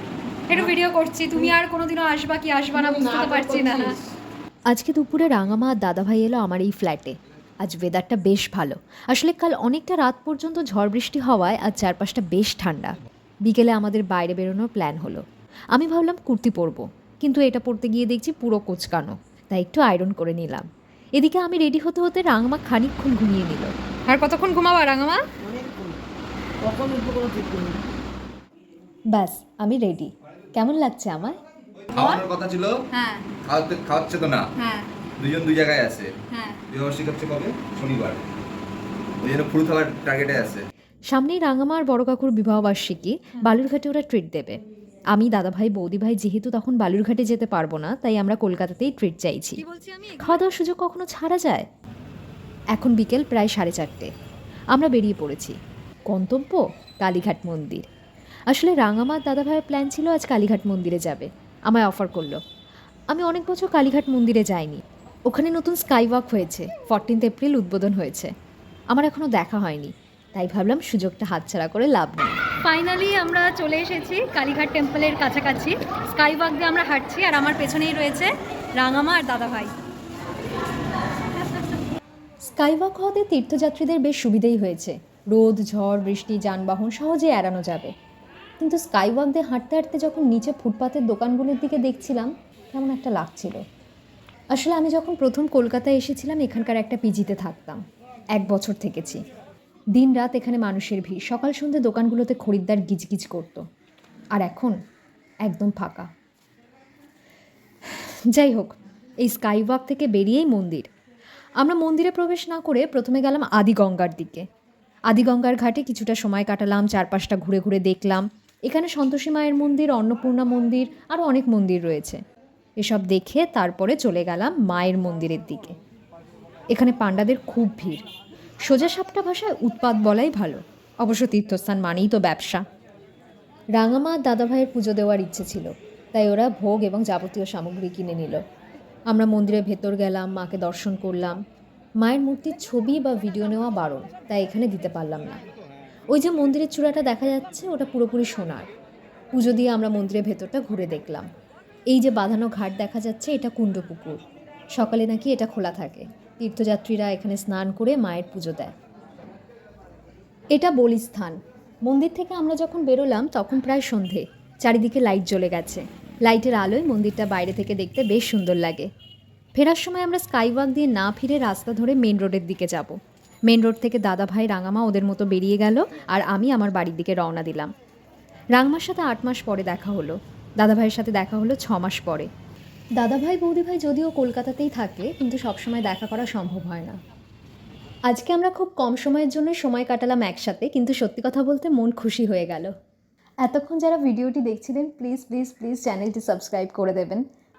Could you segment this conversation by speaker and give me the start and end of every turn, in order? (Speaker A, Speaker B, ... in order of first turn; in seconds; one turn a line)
Speaker A: 0.5-3.9
Speaker B: 2.7-4.0
Speaker C: 4.7-15.2
Speaker C: 15.7-20.6
Speaker C: 21.2-23.7
Speaker A: 24.1-25.2
Speaker B: 25.4-26.0
Speaker B: 26.6-27.8
Speaker C: 29.1-31.4
Speaker D: 31.9-32.8
Speaker A: 31.9-32.2
Speaker A: 32.9-33.3
Speaker D: 33.5-34.5
Speaker A: 34.6-34.9
Speaker D: 35.2-36.1
Speaker A: 36.3-36.6
Speaker D: 36.7-38.2
Speaker D: 39.2-40.6
Speaker C: 41.1-44.6
Speaker C: 45.1-49.6
Speaker A: 49.6-50.4
Speaker C: 50.2-51.7
Speaker C: 52.7-54.1
Speaker C: 54.7-55.5
Speaker C: 56.1-57.8
Speaker C: 58.5-62.4
Speaker C: 63.1-68.3
Speaker C: 68.9-72.4
Speaker A: 72.6-79.7
Speaker C: 82.5-87.9
Speaker C: 88.6-93.6
Speaker C: 94.5-97.8
Speaker C: 98.3-99.2
Speaker C: 99.9-103.6
Speaker C: 104.3-104.8
Speaker C: 105.4-106.1
Speaker C: 108.0-110.9
Speaker C: 111.6-114.4
Speaker C: 115.1-122.2
Speaker C: 122.8-125.7
Speaker C: 126.7-128.0
Speaker C: 128.6-132.6
Speaker C: 133.8-138.4
Speaker C: 139.1-141.4
Speaker C: 142.0-145.4
Speaker C: 146.1-148.7
Speaker C: 149.3-151.3
Speaker C: 151.9-154.2
Speaker C: 154.7-158.7
Speaker C: 160.5-168.9
Speaker C: 169.6-173.0
Speaker C: 173.5-177.7
Speaker C: 178.5-182.3
Speaker C: 183.0-187.0
Speaker C: 188.1-192.7
Speaker C: 193.4-197.2